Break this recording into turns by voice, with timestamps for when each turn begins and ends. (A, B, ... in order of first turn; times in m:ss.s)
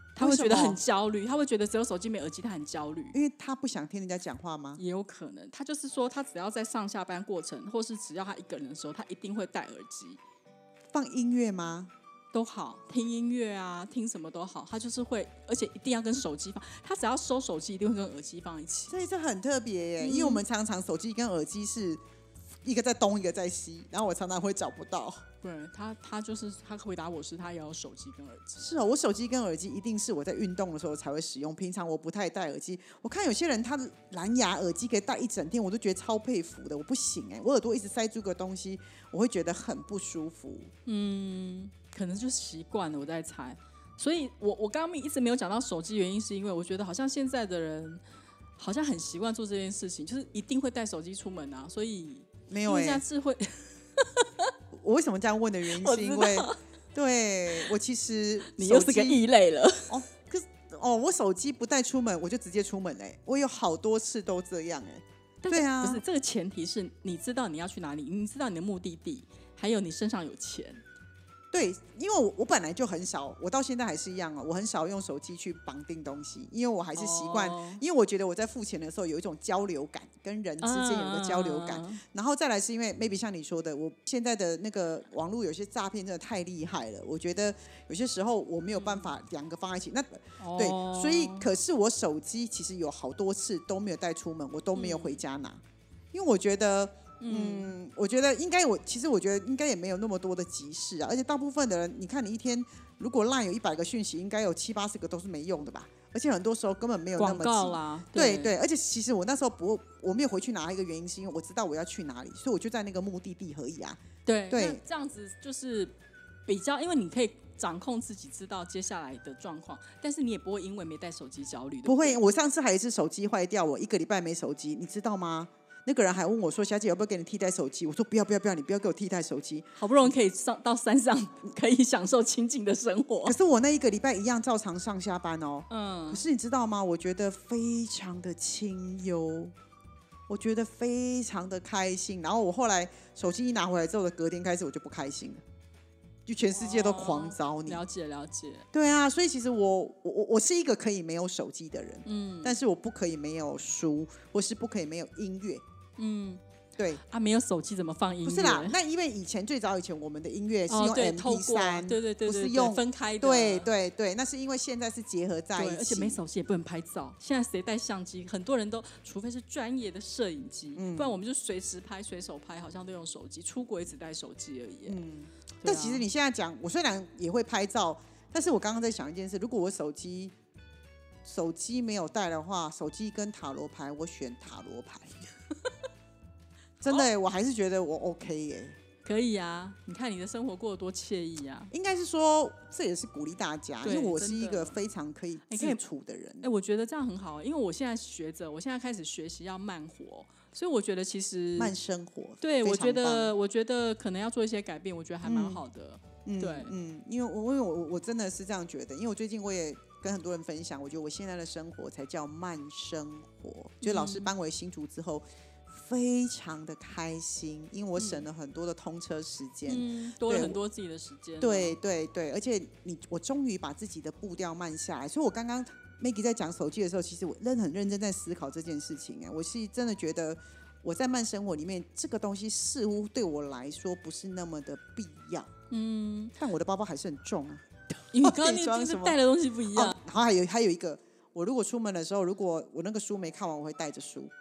0:00.2-0:03.2 A
0:00.2-0:00.8 B
0:03.1-0:04.8 B
0:04.8-0:10.2 A
0:10.9-0:11.9 B
0:12.3-0:19.0 A
0:18.9-0:22.0 B
0:20.0-0:20.4 A
0:22.6-0:25.2 B
0:25.4-0:28.6 A
0:28.6-0:40.7 B
0:40.9-0:48.0 A
0:48.6-0:54.5 A
0:52.5-0:53.0 B
0:54.7-0:59.2 B
0:55.6-0:56.6 A
0:58.5-0:59.9 A
0:59.9-1:06.0 B
1:05.4-1:10.8 A
1:11.5-1:35.6 B
1:17.0-1:17.8 A
1:20.6-1:22.0 A
1:28.7-1:29.1 A
1:30.4-1:31.5 A
1:34.7-1:35.2 A
1:36.1-1:54.0 B
1:37.2-1:37.7 A
1:47.2-1:48.5 A
1:54.3-1:55.9 A
1:54.5-1:54.8 B
1:56.5-2:02.2 A
2:01.8-2:09.7 B
2:09.8-2:13.4 A
2:13.2-2:19.5 B
2:15.7-2:16.2 A
2:20.3-2:25.4 B
2:26.3-2:27.8 B
2:26.5-2:28.7 A
2:28.7-2:35.6 B
2:32.0-2:32.6 A
2:36.0-2:36.4 A
2:37.0-2:38.8 A
2:38.2-2:46.2 B
2:40.7-2:43.7 A
2:45.6-2:55.0 A
2:50.8-2:51.2 B
2:54.8-3:00.3 B
2:55.6-2:56.1 A
3:01.2-3:05.3 B
3:06.8-3:08.8 B
3:09.0-3:11.7 A
3:11.7-3:16.5 B
3:13.8-3:14.8 A
3:15.5-3:15.8 A
3:16.4-3:21.7 A
3:21.6-3:23.3 B
3:22.4-3:26.7 A
3:25.2-3:25.6 B
3:26.2-3:40.6 B
3:33.8-3:34.3 A
3:38.0-3:38.3 A
3:39.7-3:41.8 A
3:41.4-3:55.5 B
3:55.7-3:56.4 A
3:56.4-3:57.7 B
3:58.1-4:00.0 A
3:58.2-3:59.2 B
3:59.7-4:04.3 B